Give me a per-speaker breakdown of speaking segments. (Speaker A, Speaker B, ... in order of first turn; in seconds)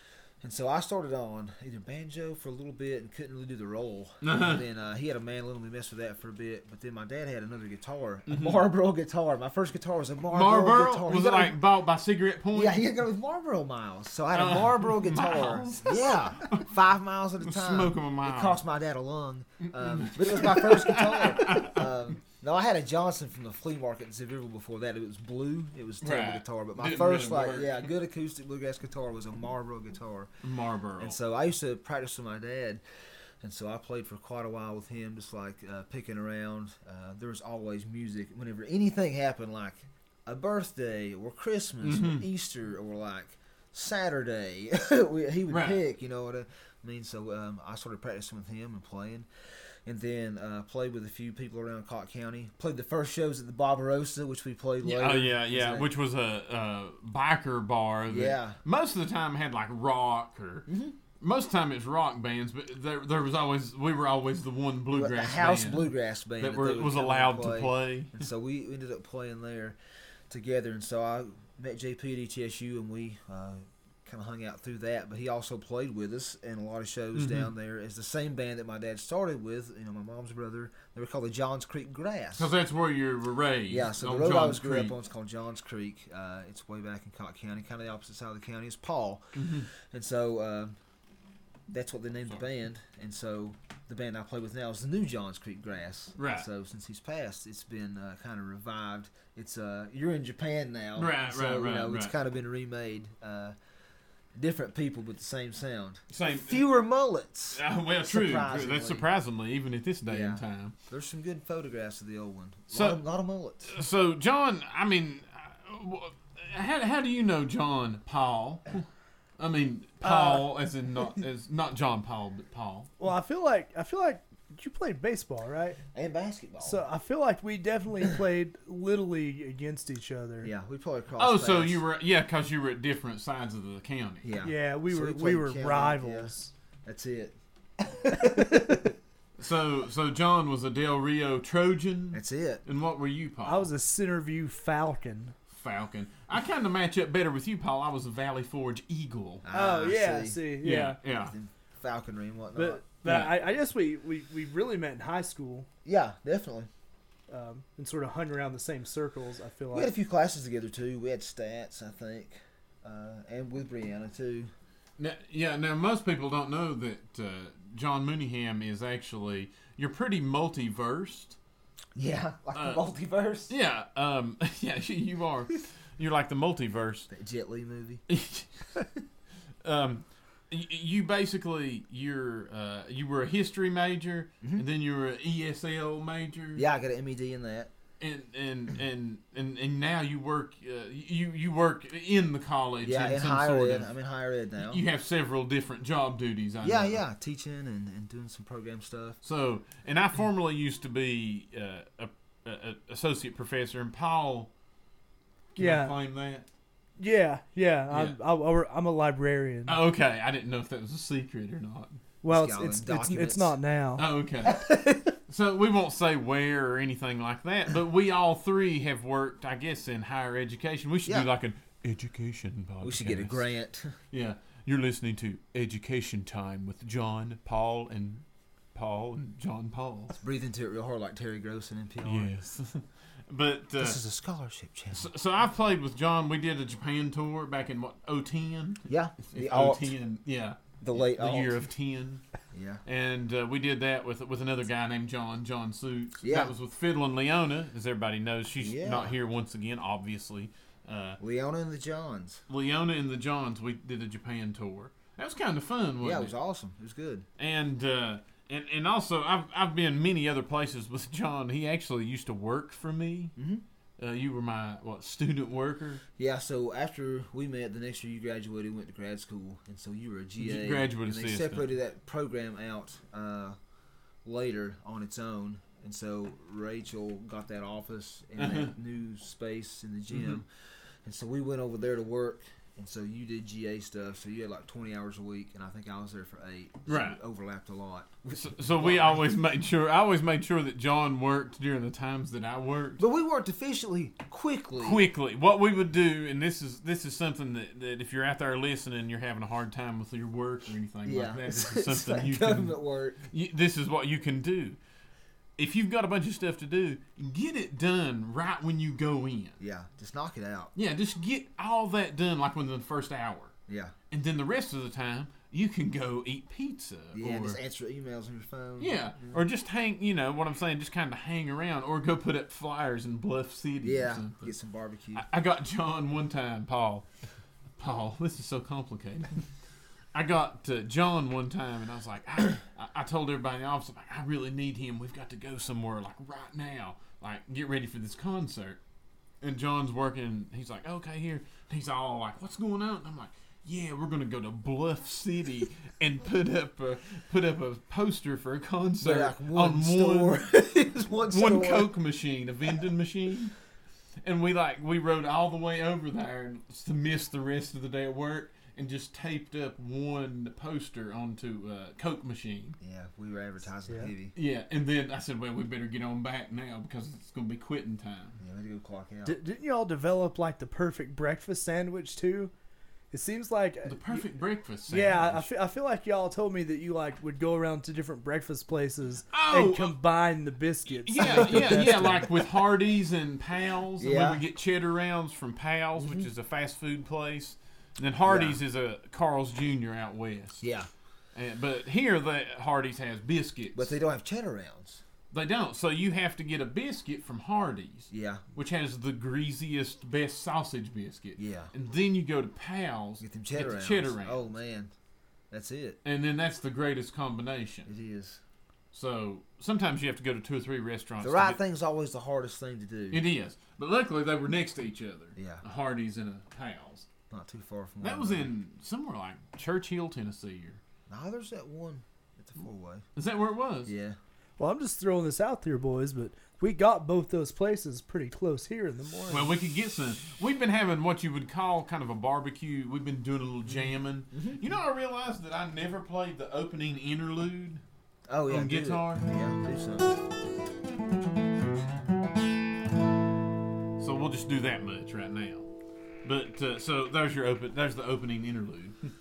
Speaker A: 0.4-11.6, 12.5-30.3, 31.0-32.8, 33.4-49.3, 49.8-55.9, 58.1-58.6, 60.7-61.0, 64.9-69.8, 70.3-82.5, 83.7-90.8, 91.7-103.5, 104.3-109.0, 110.0-113.7, 125.9-126.8, 130.4-131.8, 134.2-138.9, 142.1-142.6, 149.4-152.8, 155.8-156.7, 159.7-164.5, 171.9-173.5, 177.1-178.0, 186.5-187.7, 192.8-194.8, 196.6-199.2, 212.3-213.6, 214.5-214.9, 222.8-223.9, 230.2-232.3, 233.8-235.1, 238.8-239.9, 240.8-241.6, 242.5-242.8, 246.2-246.5, 248.6-249.1, 251.2-252.4, 256.0-257.2, 263.4-263.6, 266.2-273.6, 274.2-289.2, 293.0-295.0, 301.0-303.2, 309.6-310.7, 313.7-313.9, 317.1-319.4, 323.8-325.2, 349.0-351.9, 362.8-364.3, 368.4-369.4, 381.2-382.3, 384.0-384.4, 386.0-386.3, 388.2-388.6, 390.6-390.9, 393.7-395.0, 398.1-398.4, 401.4-401.7, 403.2-404.9, 405.5-406.0, 407.9-408.4, 411.2-413.2, 415.4-415.6, 417.3-418.5, 421.1-423.0, 423.8-424.2, 434.3-434.6, 438.3-440.1
Speaker B: 4.2-4.6, 8.3-8.6, 10.3-12.8, 14.3-16.7, 17.4-18.6, 19.8-21.9, 26.0-27.8, 30.4-31.1, 41.8-42.2, 45.5-45.8, 54.8-60.7, 61.2-68.1, 77.1-77.5, 82.3-84.9, 89.3-89.7, 96.2-96.5, 101.0-102.1, 106.1-106.6, 107.5-110.7, 112.7-113.0, 113.6-118.8, 119.4-122.9, 131.2-134.2, 139.4-143.7, 145.5-149.4, 150.6-151.3, 153.0-153.4, 165.0-171.4, 172.5-172.8, 173.5-177.1, 178.1-178.9, 179.6-186.6, 188.0-193.9, 194.6-197.0, 199.2-204.5, 205.5-206.5, 207.9-208.2, 209.7-212.0, 214.0-223.4, 224.1-228.2, 228.7-230.2, 232.0-234.0, 234.9-242.2, 242.8-251.2, 252.5-256.3, 257.4-263.3, 264.0-266.0, 270.4-271.6, 278.4-278.7, 286.9-287.2, 288.3-293.0, 294.8-302.7, 303.3-304.8, 305.6-309.6, 310.7-313.5, 314.1-317.6, 318.8-324.5, 325.1-327.1, 327.8-329.4, 330.1-338.8, 339.4-350.4, 351.3-353.5, 354.2-362.8, 364.3-368.4, 373.8-375.4, 379.3-379.9, 380.9-390.6, 391.3-393.9, 395.3-404.4, 406.0-407.9, 408.9-411.6, 413.1-417.1, 418.0-420.8, 423.1-423.9, 429.3-437.8, 438.5-439.2, 444.0-445.7, 446.2-448.9
Speaker C: 120.0-120.4, 123.0-125.8, 126.6-130.5, 134.4-136.5, 143.4-145.3, 149.5-151.0, 152.5-155.7, 157.3-159.9, 205.6-205.9, 207.0-209.8, 212.2-214.1, 369.2-372.5, 373.1-374.2, 374.9-382.3, 424.6-429.5